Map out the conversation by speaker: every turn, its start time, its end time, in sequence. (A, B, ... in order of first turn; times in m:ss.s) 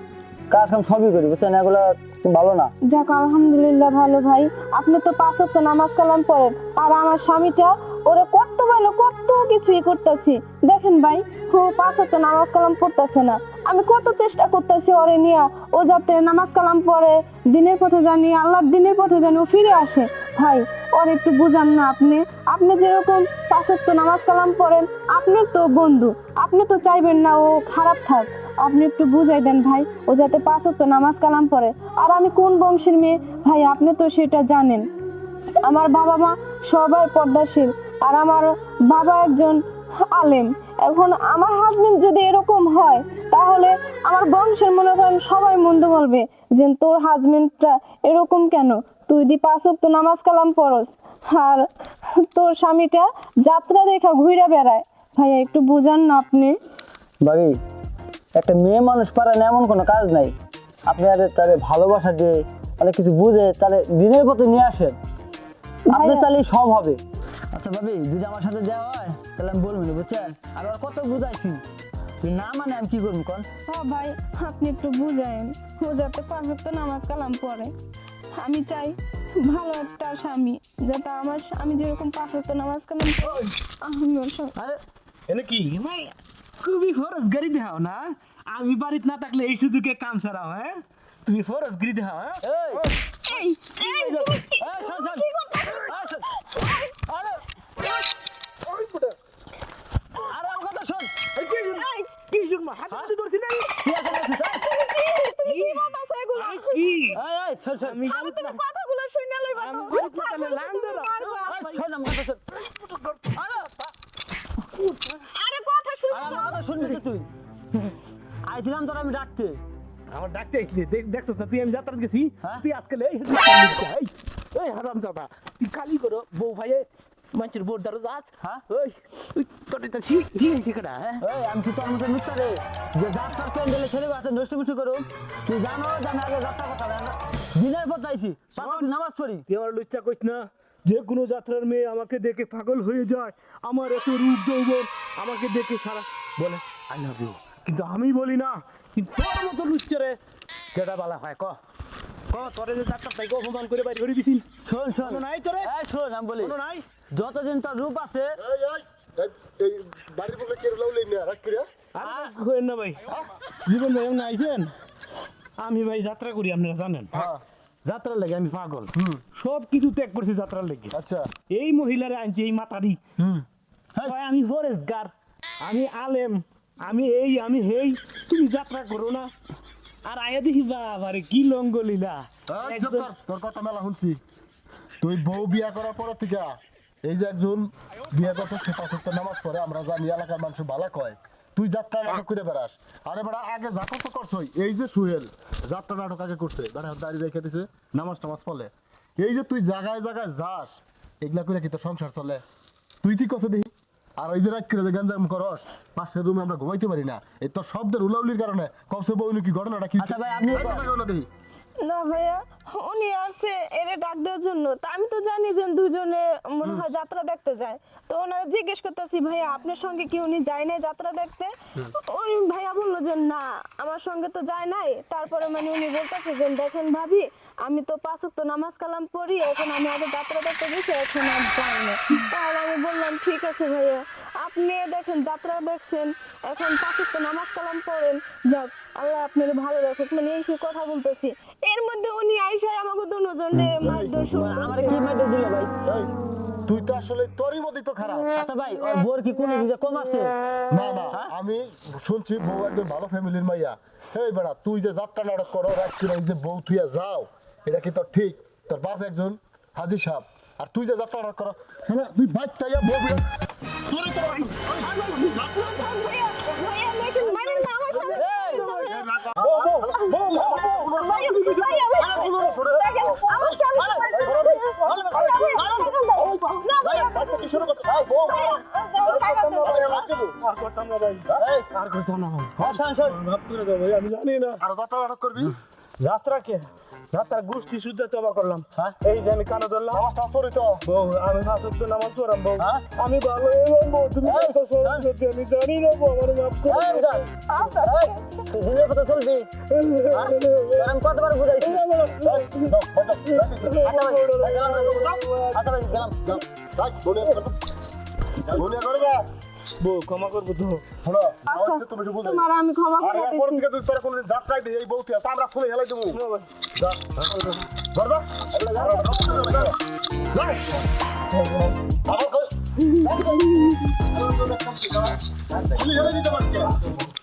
0:00.5-0:02.7 A
0:02.8-0:34.9 B
0:35.6-0:56.6 B
0:57.2-0:57.6 A
0:58.4-1:00.3 A
1:00.9-1:05.0 A
1:05.9-1:07.0 A
1:05.9-1:06.3 B
1:07.5-1:11.6 A
1:12.2-1:13.5 A
1:13.7-1:17.7 B
1:18.3-1:24.6 B
1:23.2-1:23.5 C
1:25.3-1:34.4 C
1:32.4-1:32.8 A
1:33.8-1:35.8 B
1:34.5-1:36.3 A
1:36.5-1:36.9 B
1:37.0-1:37.4 A
1:38.7-1:39.2 C
1:40.2-1:41.1 A
1:41.3-1:43.8 C
1:41.8-1:42.1 B
1:43.8-1:44.6 A
1:44.5-1:46.8 B
1:45.4-1:45.8 C
1:46.4-1:47.2 C
1:47.1-1:48.1 A
1:47.8-1:48.6 C
1:48.0-1:51.6 B
1:49.5-1:51.8 C
1:51.5-1:52.4 A
1:52.6-1:53.9 C
1:55.3-1:56.6 B
1:56.1-1:57.3 A
1:58.4-1:59.6 A
2:00.1-2:11.2 C
2:11.2-2:19.4 A
2:18.5-2:18.9 C
2:19.5-2:30.2 C
2:30.7-2:31.6 C
2:32.3-2:34.5 C
2:34.6-2:38.4 A
2:35.0-2:35.7 C
2:36.4-2:36.9 C
2:38.4-2:41.7 D
2:42.0-2:43.0 C
2:42.0-2:42.3 A
2:43.6-2:44.7 C
2:45.6-2:47.3 C
2:47.1-2:47.4 D
2:47.8-2:50.9 C
2:48.9-2:49.2 D
2:50.9-2:51.3 D
2:51.5-2:53.0 C
2:53.2-2:53.4 D
2:54.0-2:59.3 C
3:00.0-3:03.1 C
3:02.5-3:04.2 D
3:05.0-3:22.4 D
3:23.0-3:31.3 D
3:30.0-3:30.8 A
3:31.8-4:05.0 B
4:03.8-4:04.2 D
4:04.3-4:05.7 A
4:05.8-4:06.1 D
4:06.6-4:08.3 D
4:08.3-4:10.4 A
4:10.7-4:23.2 D
4:23.8-4:25.7 D
4:24.8-4:25.8 C
4:25.7-4:29.0 B
4:27.2-4:32.3 C
4:28.1-4:28.7 A
4:28.7-4:35.6 D
4:30.8-4:34.5 B
4:33.7-4:34.6 A
4:34.2-4:37.0 C
4:35.1-4:35.9 A
4:35.2-4:37.7 B
4:36.8-4:37.1 A
4:37.0-4:40.4 D
4:37.9-4:38.2 A
4:38.2-4:39.7 B
4:38.2-4:44.6 C
4:41.3-4:41.7 A
4:42.6-4:43.2 A
4:44.6-4:45.6 D
4:46.0-4:50.0 C
4:49.9-4:50.8 D
4:50.8-4:57.3 C
4:54.2-4:55.1 A
4:56.6-4:59.5 A
4:57.5-4:58.2 B
4:59.7-5:00.9 C
5:00.1-5:01.8 A
5:01.6-5:02.6 C
5:02.2-5:05.2 D
5:03.4-5:05.7 C
5:03.8-5:04.8 A
5:05.5-5:06.2 A
5:06.2-5:07.7 D
5:08.4-5:09.2 D
5:09.8-5:10.8 C
5:11.0-5:12.4 D
5:11.5-5:13.6 B
5:13.0-5:16.2 D
5:16.1-5:16.5 C
5:16.7-5:19.8 D
5:18.8-5:19.7 C
5:22.0-5:23.5 D
5:24.1-5:26.8 D